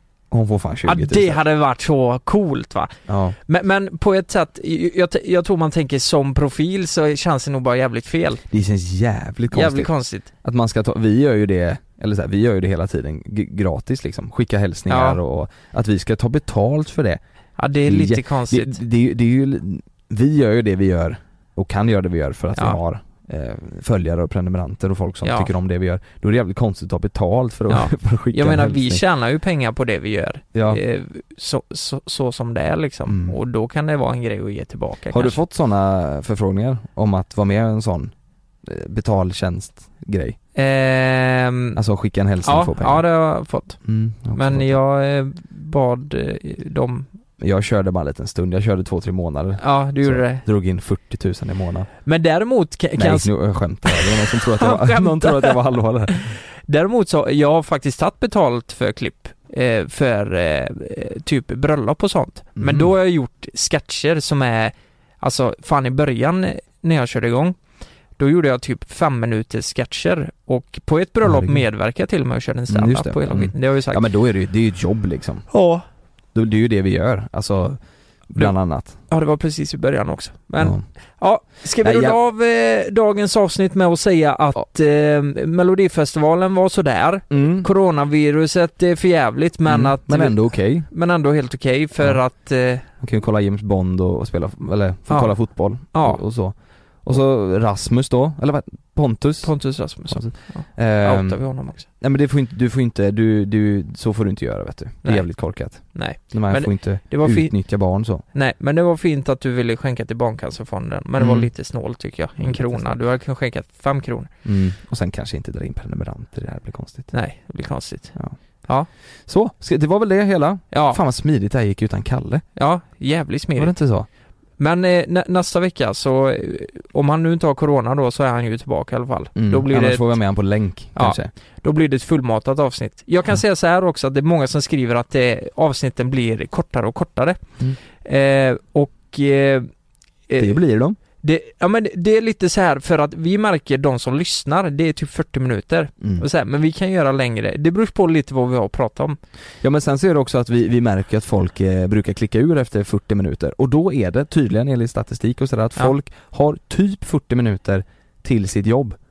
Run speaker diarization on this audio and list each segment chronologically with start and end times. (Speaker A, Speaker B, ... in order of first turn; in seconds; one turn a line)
Speaker A: 0.3-1.4
Speaker B: 0.9-2.9
Speaker A: 3.1-3.4
Speaker B: 3.5-8.4
Speaker A: 8.5-9.9
Speaker B: 9.5-10.3
Speaker A: 10.4-17.2
Speaker B: 14.9-15.2
Speaker B: 17.6-18.8
Speaker A: 17.8-29.0
Speaker B: 25.2-25.5
Speaker B: 27.7-35.4
Speaker A: 30.5-30.8
Speaker A: 33.1-33.4
Speaker A: 35.1-38.1
Speaker A: 38.6-40.4
Speaker B: 40.6-41.8
Speaker A: 41.8-43.0
Speaker B: 42.4-43.8
Speaker A: 43.8-44.8
Speaker B: 44.4-47.1
Speaker A: 47.4-51.9
Speaker B: 49.6-50.4
Speaker B: 52.1-53.3
Speaker A: 53.0-56.3
Speaker B: 53.9-55.6
Speaker B: 56.7-67.6
Speaker A: 62.6-62.9
Speaker B: 68.2-74.0
Speaker A: 71.2-71.6
Speaker A: 72.7-75.5
Speaker B: 75.5-75.8
Speaker A: 76.3-79.0
Speaker B: 79.1-92.9
Speaker A: 80.6-80.8
Speaker A: 81.8-82.2
Speaker A: 87.3-87.7
Speaker A: 89.7-90.9
Speaker A: 93.0-108.2
Speaker B: 95.1-96.2
Speaker B: 99.4-101.8
Speaker B: 105.0-107.8
Speaker B: 108.3-114.3
Speaker A: 111.2-111.5
Speaker A: 112.4-113.0
Speaker A: 114.5-117.1
Speaker B: 117.1-118.9
Speaker A: 119.3-122.5
Speaker B: 120.7-121.0
Speaker B: 122.6-123.8
Speaker A: 123.6-124.1
Speaker B: 124.6-130.1
Speaker A: 129.4-131.3
Speaker B: 131.0-137.4
Speaker B: 138.0-139.7
Speaker B: 140.3-140.6
Speaker A: 140.4-141.0
Speaker B: 141.2-149.2
Speaker A: 146.0-146.3
Speaker A: 149.6-159.0